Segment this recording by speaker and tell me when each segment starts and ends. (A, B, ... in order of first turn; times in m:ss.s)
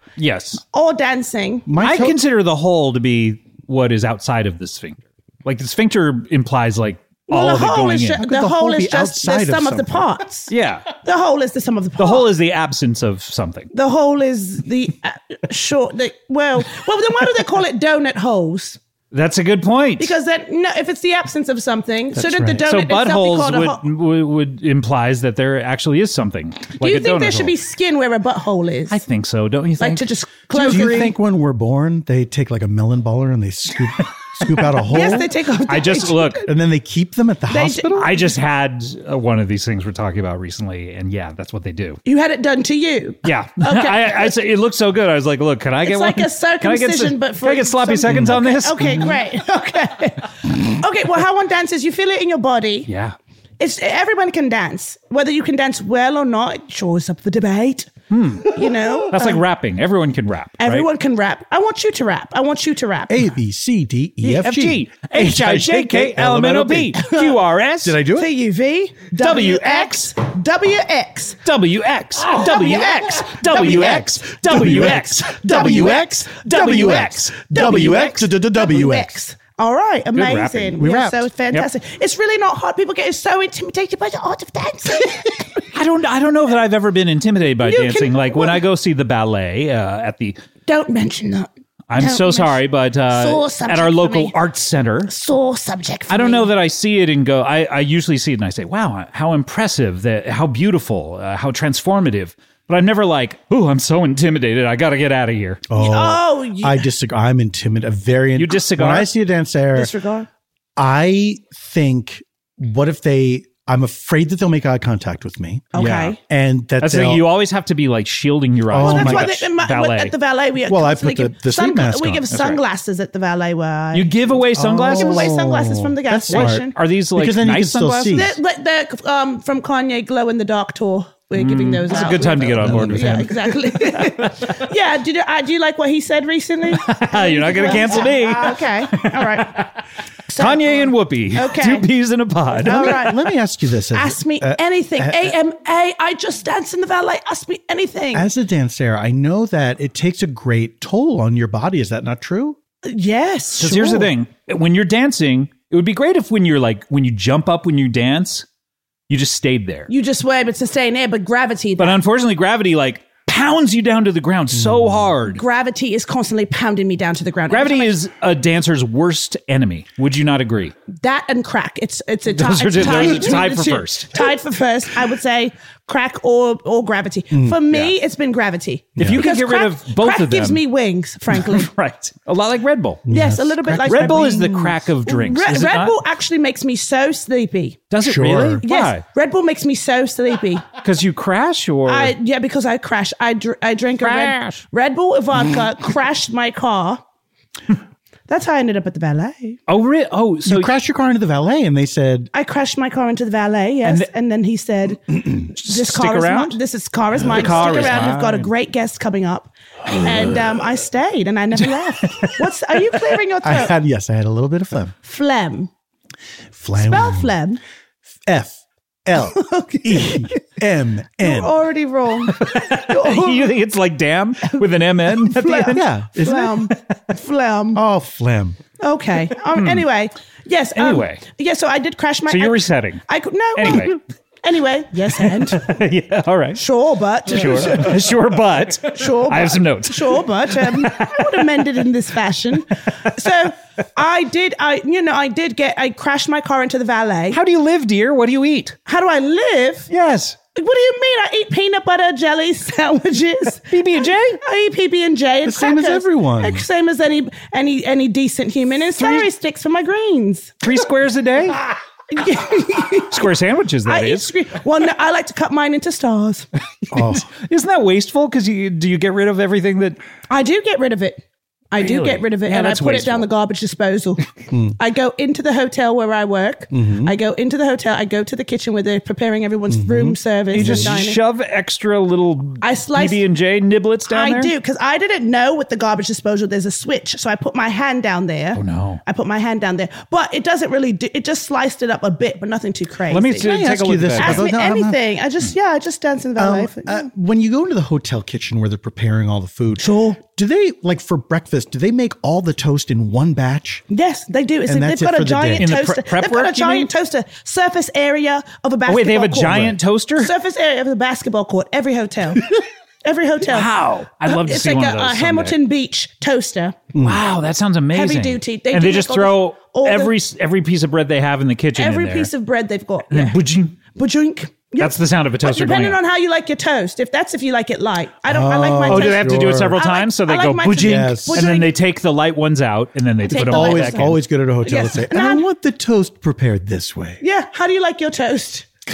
0:00.2-0:00.6 A
0:00.7-0:01.7 B
0:01.7-0:02.2 C
0:01.8-0:08.2 A
0:07.3-0:10.5 B
0:08.2-0:10.2 C
0:10.5-0:10.9 A
0:11.0-0:12.3 B
0:12.0-0:13.7 A
0:13.7-0:18.8 B
0:19.1-0:20.1 A
0:20.0-0:23.8 B
0:22.2-0:22.6 C
0:22.7-0:27.5 A
0:26.8-0:29.0 B
0:28.9-0:31.1 A
0:29.8-0:31.1 B
0:30.6-0:35.3 C
0:34.9-0:36.5 B
0:35.7-0:36.5 A
0:36.5-0:38.1 C
0:37.5-0:38.3 B
0:38.0-0:42.0 A
0:42.0-0:44.4 B
0:43.2-0:49.1 A
0:45.8-0:52.9 B
0:48.1-0:48.4 C
0:52.9-0:53.2 A
0:53.6-0:59.4 B
0:58.1-0:58.6 A
0:59.1-1:00.9 A
1:00.6-1:03.2 B
1:03.1-1:07.0 C
1:04.2-1:08.0 A
1:07.0-1:07.4 B
1:07.8-1:08.3 C
1:08.2-1:11.4 B
1:09.1-1:10.1 A
1:11.4-1:18.2 A
1:12.3-1:25.6 B
1:13.5-1:19.2 C
1:20.2-1:20.8 A
1:20.8-1:21.3 C
1:25.7-1:30.4 A
1:27.6-1:28.6 B
1:30.7-1:34.4 B
1:31.9-1:35.1 A
1:35.1-1:36.5 B
1:36.1-1:45.6 A
1:45.7-1:49.9 C
1:45.8-1:46.9 B
1:48.4-1:49.1 A
1:49.8-1:50.3 B
1:50.8-1:57.3 C
1:55.7-1:56.2 B
1:55.8-1:56.2 A
1:56.8-2:00.1 A
1:58.7-1:59.4 C
1:58.8-2:04.4 B
2:00.7-2:02.2 C
2:02.3-2:02.6 A
2:03.9-2:05.3 A
2:04.6-2:08.4 C
2:04.9-2:06.8 B
2:06.3-2:08.3 A
2:08.1-2:19.7 B
2:11.4-2:13.4 A
2:12.2-2:13.3 C
2:13.9-2:14.6 A
2:16.7-2:19.7 A
2:20.3-2:21.9 B
2:20.4-2:23.0 A
2:22.5-2:23.4 B
2:22.6-2:25.3 C
2:23.9-2:28.3 B
2:28.1-2:32.6 C
2:32.8-2:34.1 B
2:33.6-2:38.5 A
2:39.1-2:39.9 A
2:39.9-2:42.0 B
2:41.8-2:45.4 A
2:44.5-2:45.1 C
2:45.3-2:48.0 B
2:47.5-2:50.7 A
2:50.9-3:01.7 B
2:52.3-2:54.2 A
2:57.3-2:57.9 C
2:59.0-2:59.2 C
2:59.0-3:00.6 A
3:01.4-3:03.0 A
3:03.1-3:04.8 C
3:03.1-3:07.8 B
3:03.9-3:06.0 A
3:07.9-3:09.0 A
3:08.0-3:08.6 C
3:08.6-3:10.7 B
3:10.8-3:12.1 A
3:11.9-3:17.0 B
3:14.0-3:14.6 A
3:18.3-3:19.6 B
3:19.7-3:20.7 A
3:20.4-3:22.3 C
3:22.3-3:33.8 B
3:25.5-3:26.6 A
3:27.2-3:28.5 A
3:27.4-3:27.8 C
3:32.0-3:32.4 A
3:33.4-3:34.9 C
3:35.0-3:35.7 B
3:36.6-3:37.3 C
3:36.8-3:37.6 B
3:38.3-3:41.5 C
3:39.2-3:40.4 B
3:41.2-3:43.6 B
3:42.3-3:45.8 A
3:44.5-3:47.8 B
3:45.7-3:46.6 C
3:47.7-3:48.6 C
3:48.8-3:55.8 B
3:49.6-3:49.8 A
3:50.8-3:51.2 A
3:52.3-3:53.0 A
3:53.6-3:54.0 A
3:55.2-3:56.6 A
3:56.6-3:58.0 B
3:57.3-4:01.7 A
3:58.9-4:07.4 B
4:07.3-4:08.8 A
4:08.9-4:09.9 B
4:09.9-4:10.4 A
4:10.6-4:20.6 B
4:13.7-4:14.4 A
4:15.4-4:16.6 C
4:19.0-4:19.3 A
4:20.6-4:21.6 A
4:22.1-4:23.3 B
4:23.1-4:24.3 A
4:23.9-4:26.5 B
4:26.9-4:27.3 C
4:26.9-4:30.0 A
4:30.3-4:41.2 B
4:31.8-4:33.3 A
4:34.5-4:34.8 C
4:36.7-4:37.1 C
4:39.7-4:41.0 C
4:40.5-4:44.5 A
4:42.6-4:43.3 B
4:44.1-4:53.5 B
4:48.6-4:49.0 A
4:53.1-4:54.5 A
4:53.4-4:55.0 C
4:54.2-4:57.1 B
4:56.4-5:03.8 C
4:59.8-5:00.2 B
5:03.9-5:13.7 B
5:04.7-5:05.7 C
5:05.6-5:06.9 A
5:08.9-5:10.3 A
5:13.5-5:15.6 A
5:14.2-5:16.8 B
5:16.9-5:17.2 C
5:17.0-5:22.3 A
5:17.9-5:20.2 B
5:21.8-5:23.4 B
5:23.1-5:23.8 A
5:23.9-5:31.8 B
5:24.8-5:26.0 A
5:28.3-5:29.8 C
5:28.9-5:34.1 A
5:30.7-5:31.6 C
5:33.2-5:35.4 B
5:33.4-5:37.2 C
5:37.2-5:38.7 B